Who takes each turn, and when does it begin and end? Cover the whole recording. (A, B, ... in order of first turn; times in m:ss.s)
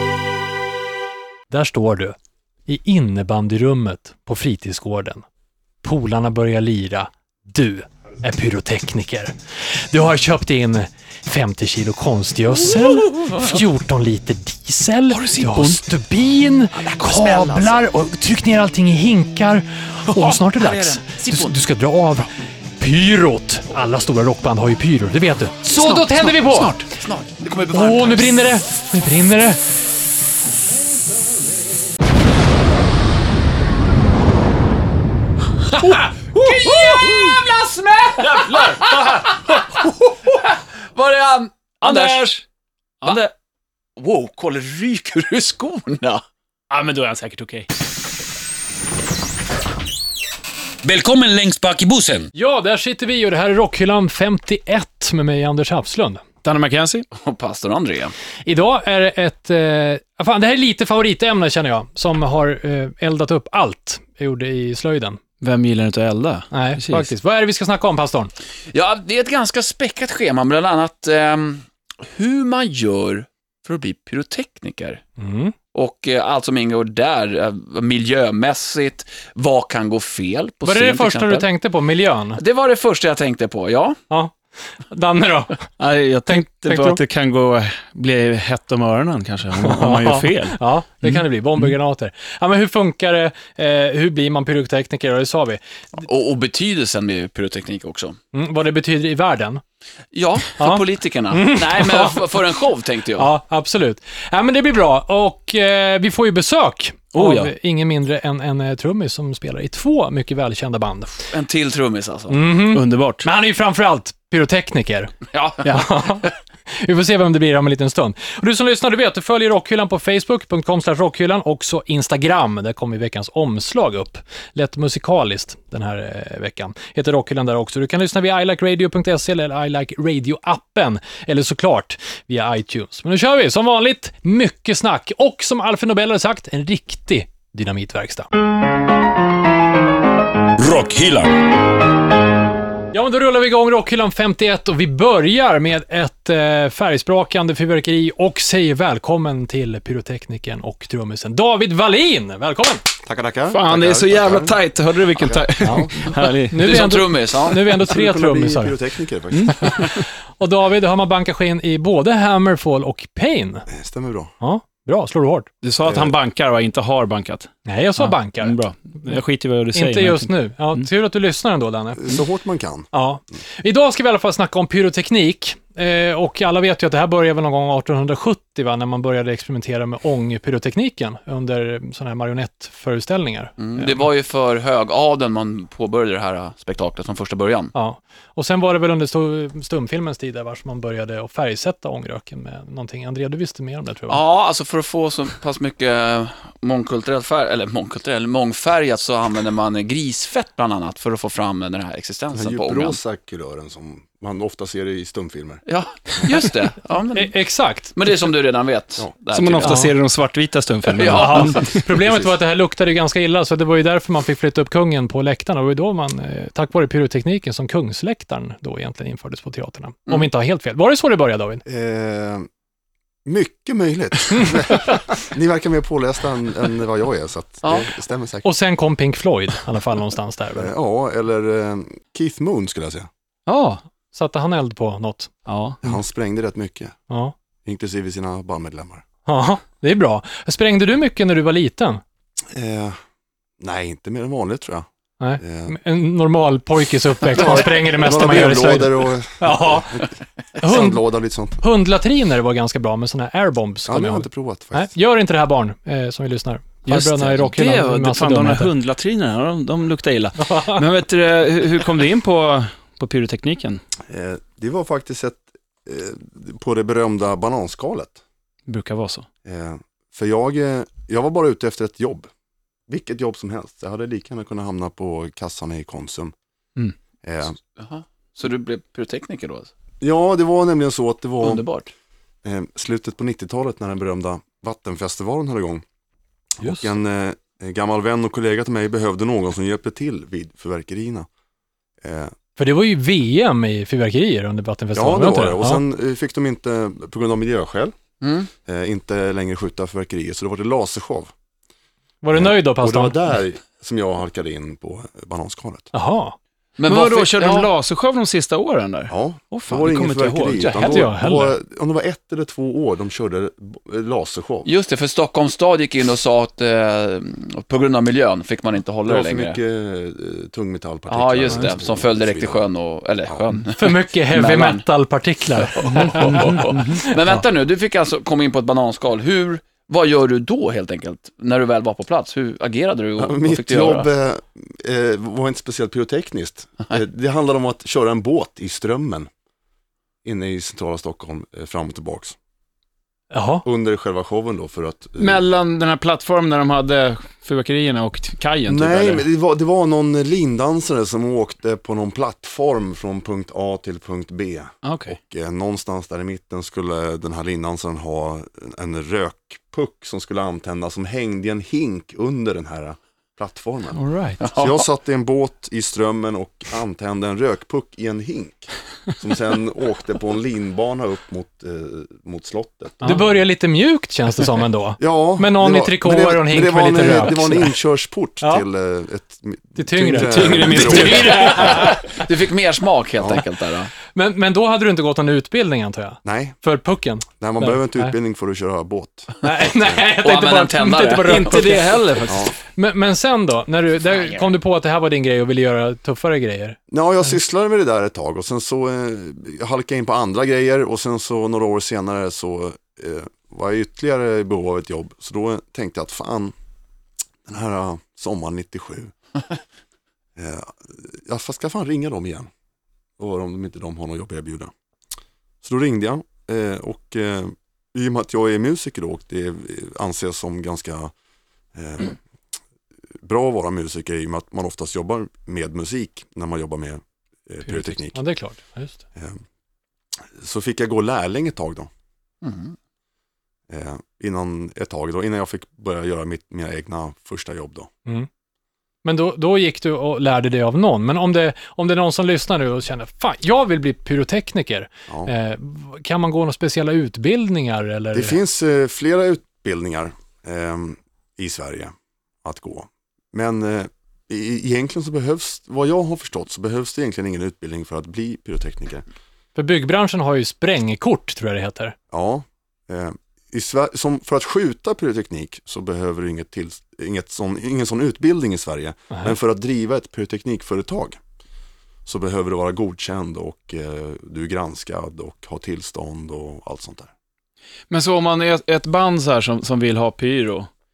0:01.5-0:02.2 A
0:02.7-0:05.2 A
0:05.8-0:26.8 A
0:12.6-0:13.6 B
0:15.1-0:15.8 B
0:16.8-0:17.8 B
0:20.1-0:21.5 B
0:25.7-0:28.4 B
0:27.7-0:29.6 A
0:35.8-0:42.3 B
0:38.2-0:39.3 C
0:41.8-0:42.4 C
0:43.0-0:43.3 B
0:44.0-0:46.2 B
0:46.7-0:47.7 C
0:50.8-0:52.3 D
0:52.4-0:56.2 A
0:56.4-0:57.1 C
0:57.2-0:58.1 B
0:58.4-1:05.2 A
1:05.4-1:07.1 C
1:06.5-1:08.3 A
1:08.7-1:15.0 B
1:15.2-1:15.6 A
1:15.7-1:21.5 B
1:20.6-1:22.4 A
1:22.4-1:24.0 B
1:24.1-1:25.7 A
1:25.8-1:31.1 C
1:26.3-1:27.0 A
1:29.6-1:35.6 A
1:36.0-1:38.2 B
1:38.3-1:39.6 A
1:40.1-1:43.3 B
1:40.6-1:42.4 A
1:43.2-1:51.3 A
1:47.1-1:47.5 C
1:51.3-1:52.4 B
1:52.3-1:55.1 A
1:52.7-1:53.3 C
1:55.3-1:55.9 B
1:55.6-2:18.3 A
2:20.6-2:21.4 D
2:22.9-2:32.9 A
2:33.0-2:34.6 E
2:33.5-2:36.8 C
2:35.2-2:36.0 E
2:35.6-2:38.8 A
2:36.5-2:37.8 B
2:37.7-2:39.9 E
2:39.5-2:43.7 A
2:43.7-2:44.3 E
2:44.4-2:45.5 A
2:45.6-2:50.8 C
2:45.8-2:46.2 E
2:47.6-2:49.2 A
2:49.7-2:52.2 A
2:52.0-2:52.9 E
2:52.9-3:04.0 A
3:03.6-3:07.7 B
3:07.7-3:14.2 A
3:14.1-3:23.0 B
3:22.3-3:25.6 E
3:25.7-3:27.3 B
3:27.2-3:28.0 A
3:28.0-3:29.9 B
3:29.3-3:31.8 C
3:29.6-3:29.9 A
3:30.9-3:31.7 B
3:31.1-3:41.6 A
3:41.7-3:42.5 E
3:43.2-3:48.5 E
3:47.6-3:47.9 B
3:48.4-3:50.7 A
3:50.6-3:53.1 E
3:53.5-3:53.8 C
3:54.1-3:55.3 A
3:55.5-3:55.8 C
3:55.8-3:57.0 E
3:57.1-3:57.3 A
3:57.6-3:59.0 E
3:59.3-4:02.0 A
4:02.5-4:03.0 E
4:03.6-4:04.9 E
4:05.2-4:10.0 A
4:05.4-4:05.8 E
4:07.2-4:11.6 E
4:10.6-4:11.0 A
4:11.6-4:18.7 A
4:13.9-4:14.9 E
4:16.9-4:23.8 C
4:20.4-4:20.8 A
4:24.1-4:28.2 E
4:28.7-4:29.3 C
4:29.4-4:32.3 E
4:32.9-4:36.3 E
4:37.2-4:37.6 E
4:37.8-4:39.7 B
4:40.0-4:41.6 E
4:41.4-4:41.9 B
4:42.4-4:45.8 E
4:46.6-4:51.3 E
4:46.6-4:46.9 A
4:52.0-4:52.3 E
4:52.6-4:55.8 A
4:54.9-4:58.0 E
4:58.2-4:58.5 B
4:58.6-5:01.3 E
5:02.2-5:03.2 A
5:02.3-5:05.9 E
5:05.9-5:06.4 A
5:06.8-5:07.7 B
5:06.9-5:11.0 C
5:09.1-5:14.7 E
5:10.8-5:11.6 A
5:14.6-5:19.6 B
5:19.1-5:22.6 E
5:21.1-5:24.8 B
5:23.8-5:27.2 A
5:25.6-5:34.1 B
5:26.0-5:26.9 C
5:33.2-5:39.3 E
5:40.2-5:42.4 E
5:43.3-5:43.6 A
5:43.6-5:45.4 E
5:45.2-5:49.2 C
5:48.7-6:13.3 E
5:54.8-5:55.2 C
6:04.0-6:04.4 C
6:04.4-6:04.8 B
6:13.0-6:17.7 A
6:15.0-6:22.0 E
6:19.8-6:21.9 A
6:20.1-6:21.8 C
6:20.8-6:23.9 B
6:24.1-6:28.1 A
6:26.2-6:26.6 E
6:27.4-6:30.0 E
6:29.4-6:32.0 A
6:30.2-6:31.9 B
6:31.2-6:32.5 C
6:32.3-6:32.5 E
6:32.7-6:36.8 A
6:36.9-6:46.5 E
6:47.5-6:49.1 E
6:50.4-6:52.5 E
6:53.2-6:54.7 E
6:55.6-7:01.1 E
7:01.7-7:02.2 E
7:03.2-7:08.2 E
7:08.1-7:09.0 A
7:09.2-7:09.4 E
7:10.3-7:11.9 E
7:12.4-7:12.8 B
7:13.7-7:17.9 E
7:19.0-7:28.4 A
7:28.1-7:39.0 E
7:39.6-7:42.0 A
7:42.1-7:51.2 E
7:52.1-7:57.1 E
7:57.9-8:00.7 C